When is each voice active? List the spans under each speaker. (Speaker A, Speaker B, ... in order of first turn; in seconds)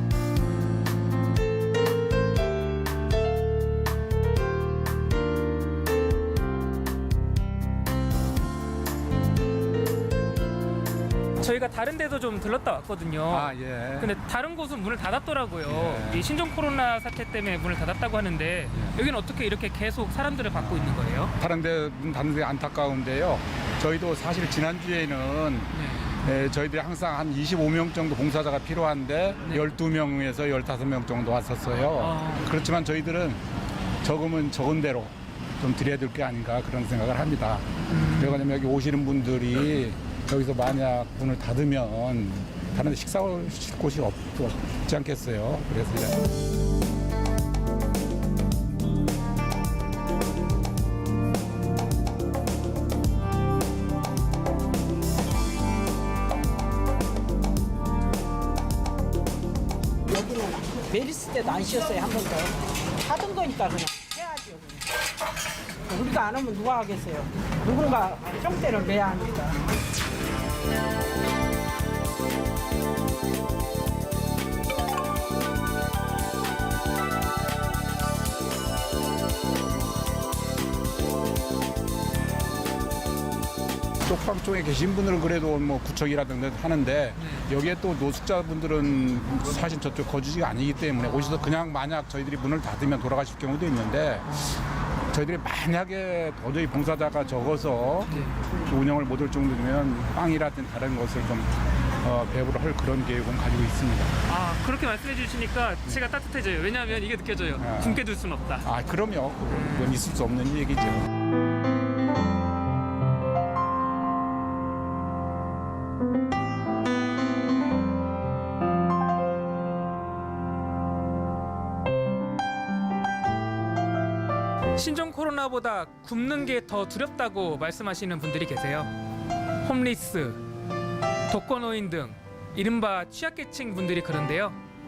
Speaker A: 11.4-21.3, 25.7-26.1, 32.0-32.5, 37.9-38.4, 87.2-87.5, 91.0-91.5, 94.3-94.6, 98.1-98.4, 104.3-108.7, 109.5-109.9, 124.8-128.9, 129.6-130.4, 131.3-134.6
Speaker B: 13.3-14.2, 15.7-16.3, 20.6-33.4, 34.0-46.2, 84.0-94.5, 95.1-104.2, 107.6-108.0, 108.6-111.1
Speaker C: 60.1-64.9, 65.9-69.6